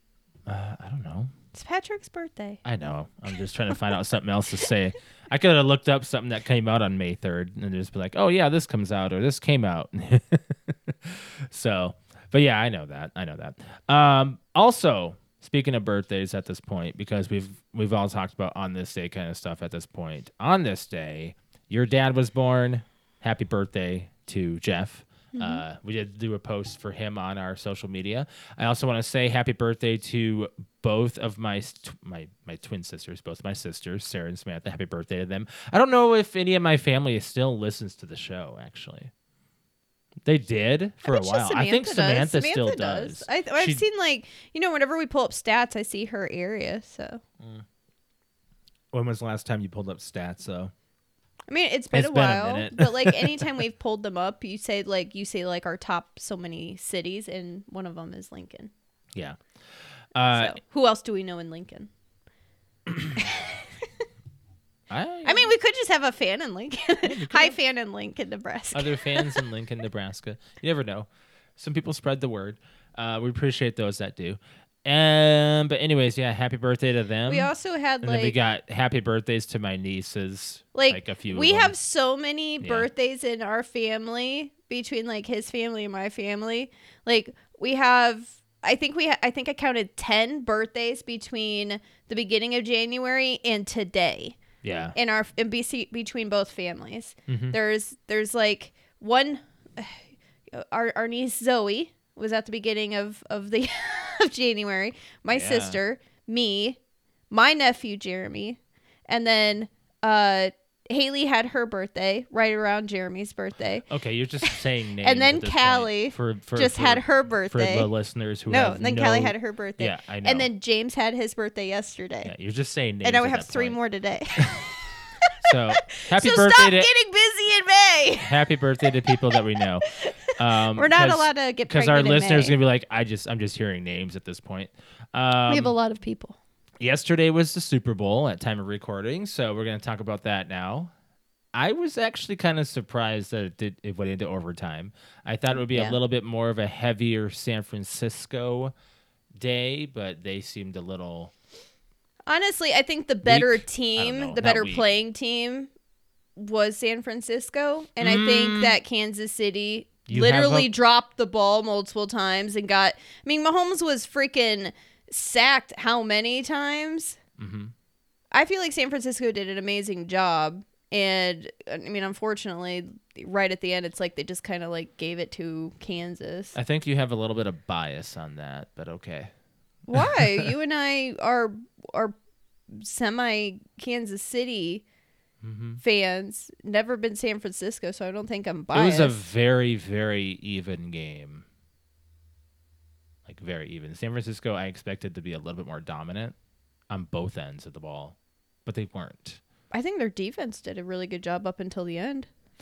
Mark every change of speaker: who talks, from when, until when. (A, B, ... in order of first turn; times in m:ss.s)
0:00.5-0:01.3 A
0:01.5-0:02.6 B
0:02.6-0:39.1 A
0:25.3-0:25.6 B
0:40.2-0:43.8 A
0:41.0-0:47.2 B
0:48.9-0:50.7 A
0:51.5-0:58.7 B
0:51.9-0:53.5 A
1:00.1-1:00.6 A
1:00.3-1:01.9 B
1:02.9-1:03.2 A
1:03.2-1:03.6 B
1:04.9-1:05.5 A
1:05.2-1:09.4 B
1:07.0-1:07.6 A
1:08.7-1:17.5 A
1:17.3-1:18.4 B
1:18.0-1:21.7 A
1:20.7-1:34.4 B
1:22.6-1:22.9 A
1:34.6-1:35.0 A
1:34.9-1:46.8 B
1:37.3-1:37.6 A
1:45.3-1:45.8 A
1:47.3-1:53.8 B
1:53.9-2:00.5 A
1:54.4-1:57.9 B
1:58.5-2:02.3 B
2:02.2-2:03.8 A
2:03.0-2:04.7 B
2:05.3-2:05.5 B
2:05.4-2:06.9 A
2:06.1-2:12.6 B
2:08.2-2:15.7 A
2:15.5-2:16.4 B
2:16.8-2:20.9 A
2:21.5-2:28.7 A
2:25.5-2:26.0 B
2:29.4-2:31.3 A
2:32.2-2:35.7 B
2:33.2-2:34.9 A
2:36.4-2:47.2 B
2:38.0-2:38.8 A
2:40.1-2:40.7 A
2:47.4-2:47.7 A
2:48.3-2:56.5 B
2:56.5-2:59.3 A
2:59.9-3:02.2 B
3:00.0-3:00.5 A
3:02.7-3:04.8 B
3:05.4-3:05.8 A
3:05.8-3:09.2 B
3:08.7-3:11.4 A
3:13.2-3:16.3 A
3:16.9-3:19.4 A
3:19.7-3:22.3 B